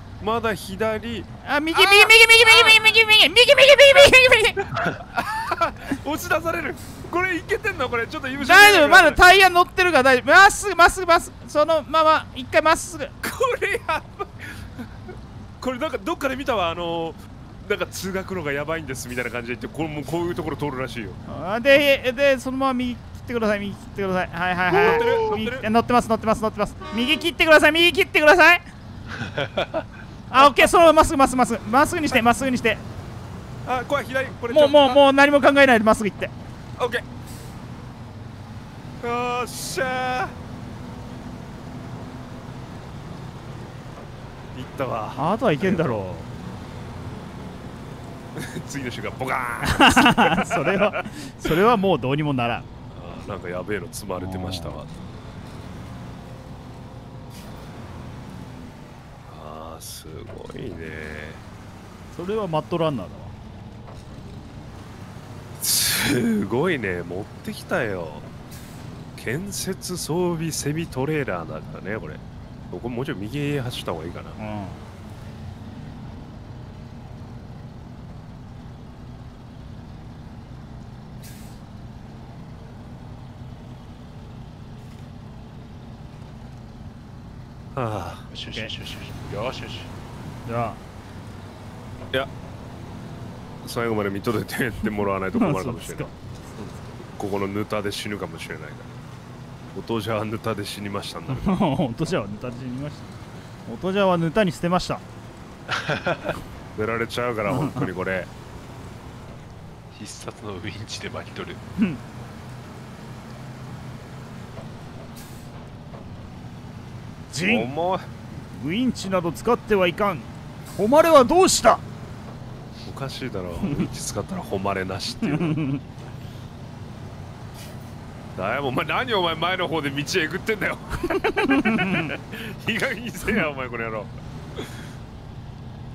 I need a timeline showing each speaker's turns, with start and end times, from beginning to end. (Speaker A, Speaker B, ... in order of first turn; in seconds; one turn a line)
Speaker A: 0.2-2.7
Speaker B: 1.4-4.6
Speaker A: 4.7-9.2
Speaker B: 8.4-13.1
Speaker A: 13.2-21.2
Speaker B: 21.3-28.6
Speaker A: 24.7-25.6
Speaker C: 24.8-25.3
Speaker C: 29.1-29.9
Speaker B: 30.3-32.8
Speaker A: 30.4-30.9
Speaker A: 33.6-35.0
Speaker B: 34.5-36.3
Speaker A: 36.8-37.0
Speaker A: 39.0-40.3
Speaker A: 44.5-46.0
Speaker B: 45.2-46.3
Speaker A: 48.3-51.6
Speaker B: 49.6-52.6
Speaker A: 52.9-54.9
Speaker B: 54.1-54.8
Speaker A: 59.3-61.4
Speaker B: 62.1-63.3
Speaker A: 65.6-68.3
Speaker A: 69.2-74.4
Speaker B: 74.4-74.8
Speaker A: 87.7-88.2
Speaker C: 88.3-89.9
Speaker B: 90.5-90.8
Speaker A: 93.6-96.1
Speaker B: 95.3-96.8
Speaker A: 97.0-98.9
Speaker A: 99.7-101.6
Speaker B: 101.3-103.1
Speaker B: 103.7-105.0
Speaker C: 105.7-106.3
Speaker A: 106.7-108.3
Speaker B: 107.5-107.9
Speaker C: 109.9-111.6
Speaker B: 117.3-117.7
Speaker A: 117.4-118.1
Speaker B: 118.4-121.8
Speaker A: 122.8-125.6
Speaker B: 123.6-123.9
Speaker B: 125.2-125.8
Speaker A: 128.3-134.7
Speaker B: 131.2-132.1